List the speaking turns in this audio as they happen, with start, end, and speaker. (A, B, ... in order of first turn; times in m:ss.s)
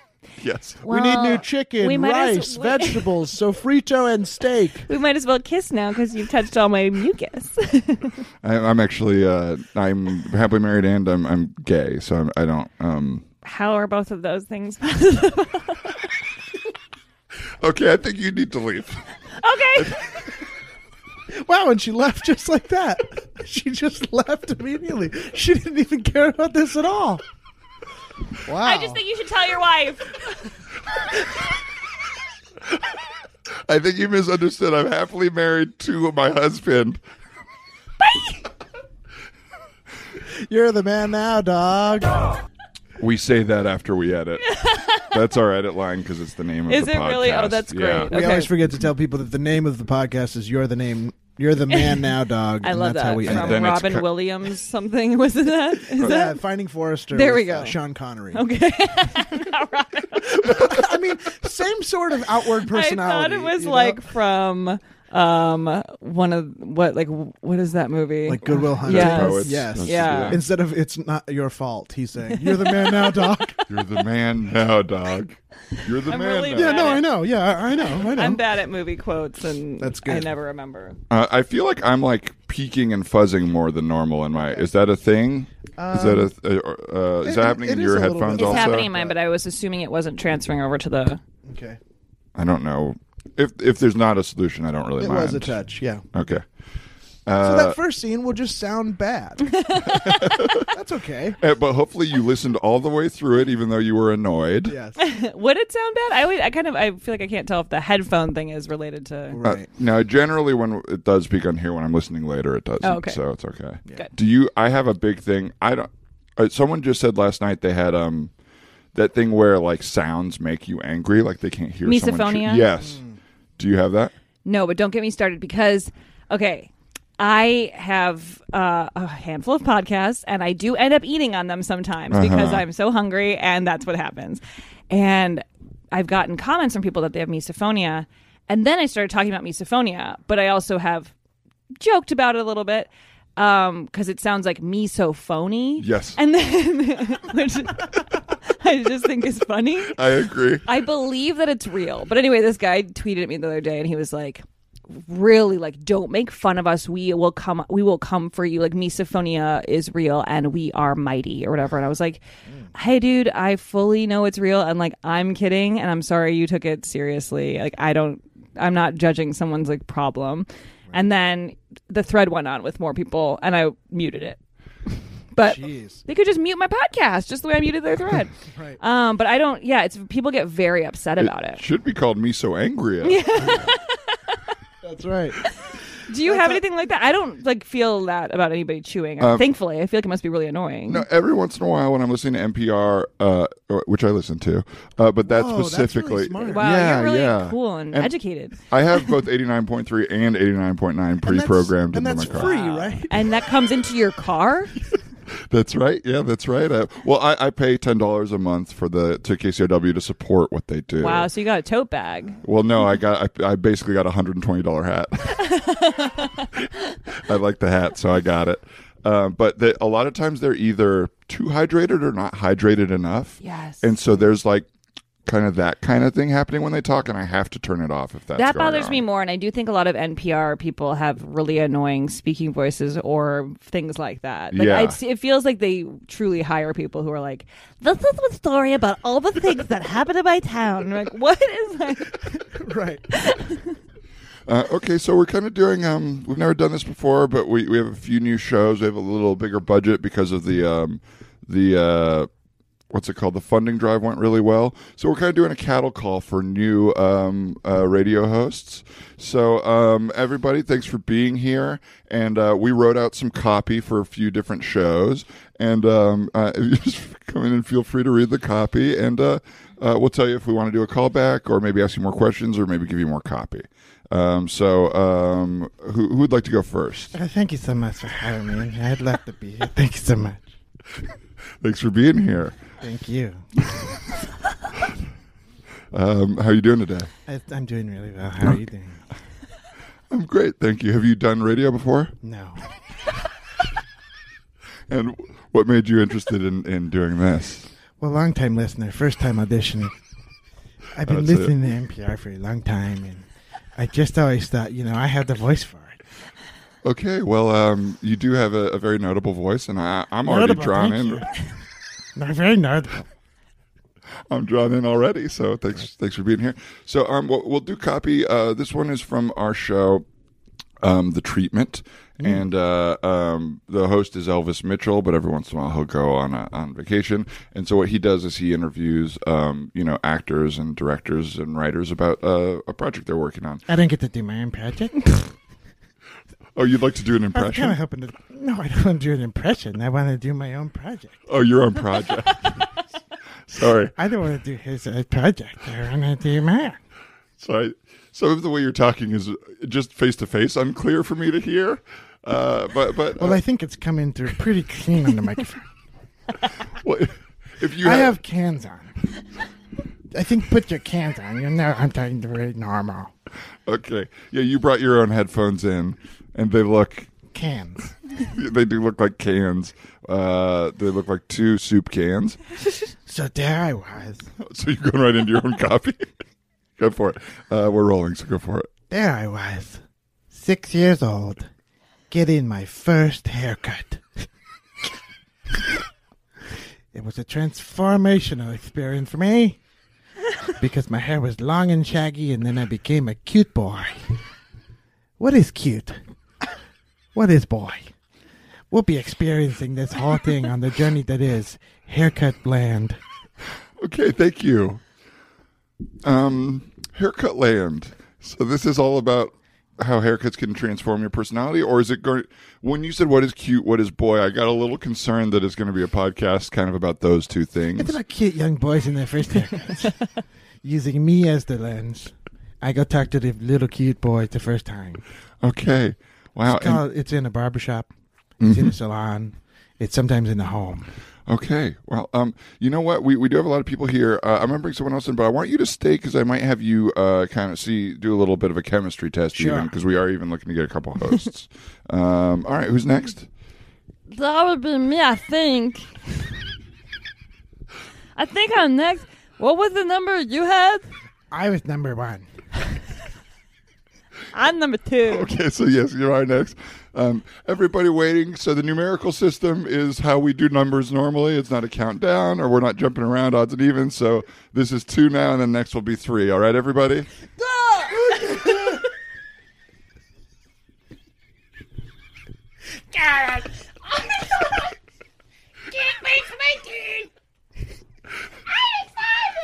0:00.4-0:00.8 A
0:00.8-0:03.1 B
0:00.8-0:04.9 C
0:04.9-0:08.2 B
0:08.4-0:13.2 A
0:13.4-0:15.9 B
0:17.6-0:19.0 A
0:19.4-0:20.1 B
0:21.3-0:27.2 C
0:28.4-0:29.0 C
0:28.6-0:30.4 B
0:33.7-0:37.0 A
0:38.0-0:38.4 B
0:40.4-0:42.2 C
0:43.0-0:48.1 A
0:44.5-0:45.1 B
0:46.7-0:48.6 B
0:48.1-0:53.6 C
0:51.7-0:52.1 B
0:52.6-0:56.4 B
0:53.2-0:54.1 A
0:56.0-0:58.4 C
0:57.1-0:57.8 B
0:58.3-1:00.8 B
1:00.4-1:04.0 C
1:02.6-1:10.4 B
1:08.3-1:13.6 C
1:08.8-1:10.4 A
1:12.3-1:13.8 B
1:13.7-1:17.0 A
1:15.8-1:17.1 B
1:16.5-1:18.4 C
1:18.1-1:21.0 B
1:19.8-1:20.3 C
1:21.1-1:28.9 A
1:25.8-1:26.3 C
1:27.2-1:29.2 C
1:28.4-1:31.2 B
1:31.5-1:31.8 C
1:32.4-1:35.6 A
1:35.0-1:36.0 C
1:36.1-1:36.4 A
1:37.3-1:37.8 A
1:37.4-1:41.4 C
1:39.6-1:40.2 B
1:39.9-1:40.7 A
1:41.4-1:44.8 A
1:44.7-1:45.0 C
1:45.0-1:49.4 B
1:49.3-1:49.7 C
1:49.4-1:58.3 A
1:52.8-1:53.2 B
1:58.9-2:03.0 A
2:01.8-2:02.7 B
2:02.8-2:03.2 C
2:03.6-2:04.1 A
2:04.4-2:21.1 B
2:12.1-2:12.6 A
2:21.8-2:30.0 B
2:25.8-2:26.2 A
2:29.9-2:30.6 A
2:30.6-2:42.2 B
2:42.7-2:54.4 B
2:55.4-3:01.6 B
2:55.4-2:56.0 C
2:58.4-2:58.8 C
3:01.2-3:03.6 A
3:03.0-3:04.5 B
3:04.8-3:05.4 C
3:05.5-3:11.0 B
3:06.2-3:06.6 C
3:09.2-3:09.5 A
3:10.9-3:22.5 A
3:15.3-3:16.7 C
3:16.5-3:19.1 B
3:21.2-3:23.2 C
3:22.3-3:24.8 B
3:25.5-3:31.3 A
3:31.0-3:32.4 B
3:32.4-3:35.6 A
3:35.4-3:36.5 B
3:37.1-3:44.7 A
3:43.4-3:44.0 B
3:45.3-3:49.0 A
3:48.4-4:02.4 B
3:54.5-3:55.0 A
4:02.5-4:03.1 C
4:03.1-4:03.7 B
4:04.5-4:12.3 A
4:12.9-4:37.2 A
4:37.1-4:40.5 D
4:41.6-4:42.5 A
4:42.8-4:43.5 D
4:45.9-4:47.1 A
4:47.3-4:49.0 D
4:50.1-4:52.1 A
4:52.2-4:52.6 D
4:54.9-4:57.7 A
4:58.0-4:59.9 D
5:01.0-5:06.0 D
5:01.0-5:01.5 A
5:06.8-5:11.2 A
5:10.2-5:11.4 D
5:12.2-5:13.1 D
5:14.3-5:20.0 A
5:20.8-5:33.6 A
5:33.7-5:35.3 D
5:36.6-5:37.8 A
5:37.3-5:41.2 D
5:41.3-5:42.7 A
5:43.5-5:43.9 A
5:44.0-5:46.8 D
5:47.4-5:53.4 A
5:53.2-5:55.6 D
5:56.8-5:58.2 A
5:57.8-5:59.0 D
6:00.1-6:03.1 D
6:03.7-6:07.1 A
6:07.3-6:07.9 D
6:08.2-6:12.4 A
6:13.1-6:14.3 D
6:14.4-6:16.1 A
6:16.8-6:18.7 A
6:18.9-6:21.5 D
6:22.1-6:24.1 D
6:26.9-6:29.6 D
6:30.6-6:34.1 D
6:35.2-6:36.0 D
6:37.1-6:37.9 D
6:38.7-6:43.0 D
6:43.8-6:44.8 A
6:46.0-6:58.0 A
6:57.8-7:00.0 D
7:00.6-7:05.0 D
7:05.4-7:06.8 A
7:06.5-7:07.9 D
7:08.4-7:08.8 A
7:08.4-7:10.9 D
7:11.3-7:23.3 A
7:19.4-7:19.7 D
7:24.1-7:26.1 B
7:28.2-7:30.9 B
7:31.3-7:32.2 D
7:34.3-7:35.3 B
7:35.1-7:47.1 A
7:48.2-7:48.5 D
7:52.9-7:54.6 D
7:55.7-7:57.1 D